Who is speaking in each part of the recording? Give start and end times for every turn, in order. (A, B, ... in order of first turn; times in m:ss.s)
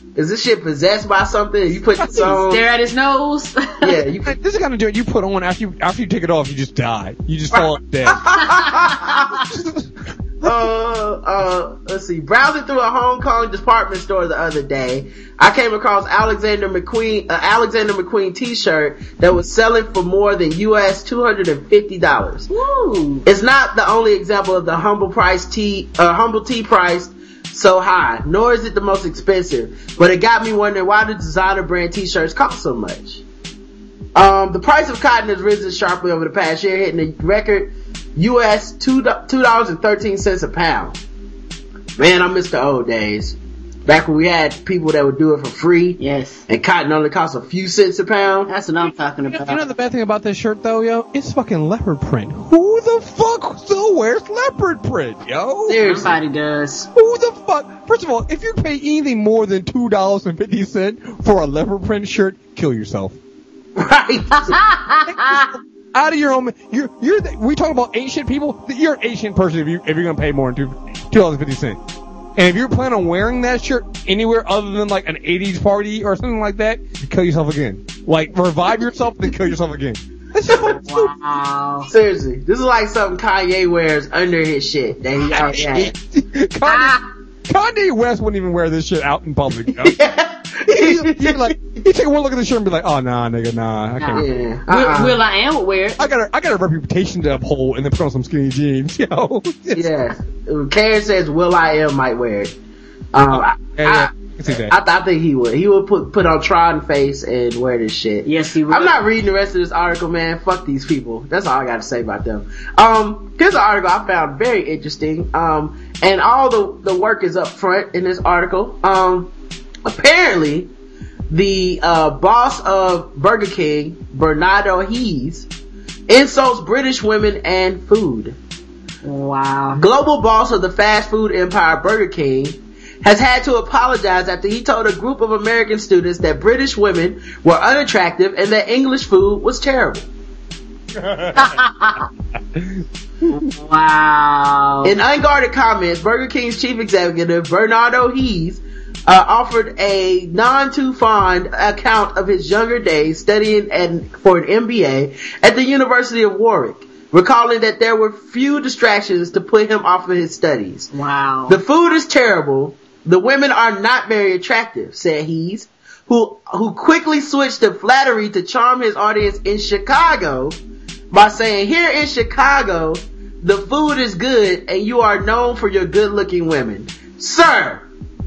0:00.2-0:02.6 A
0:02.0-0:02.3 B
0:02.2-0:04.0 C
0:03.8-0:04.4 A
0:04.2-0:08.3 B
0:07.5-0:09.1 A
0:08.4-0:09.4 C
0:09.5-0:10.6 B
0:10.4-0:22.5 A
0:22.5-0:23.2 C
0:23.2-0:33.2 A
0:34.1-0:41.0 A
0:42.0-0:48.5 A
0:46.0-0:46.4 C
0:48.5-0:49.6 C
0:49.3-0:56.1 B
0:55.7-0:56.9 C
0:56.9-1:03.2 B
1:03.8-1:04.6 A
1:04.5-1:05.5 C
1:05.1-1:11.8 B
1:12.4-1:21.1 B
1:20.8-1:21.9 C
1:21.8-1:25.9 A
1:25.3-1:29.9 B
1:26.6-1:27.0 C
1:29.7-1:31.6 A
1:30.6-1:34.2 B
1:34.0-1:36.0 C
1:34.2-1:35.2 A
1:36.0-1:39.9 B
1:39.7-1:42.5 A
1:43.1-1:59.3 A
1:43.3-1:44.8 B
1:48.2-1:49.0 C
1:59.8-2:00.7 A
2:01.3-2:05.5 A
2:06.1-2:08.4 A
2:09.0-2:09.8 C
2:09.7-2:20.1 A
2:20.9-2:21.6 B
2:21.4-2:22.1 C
2:22.5-2:23.5 B
2:23.6-2:24.9 C
2:24.8-2:40.9 A
2:40.9-2:41.6 C
2:41.5-2:50.6 A
2:51.1-2:57.8 A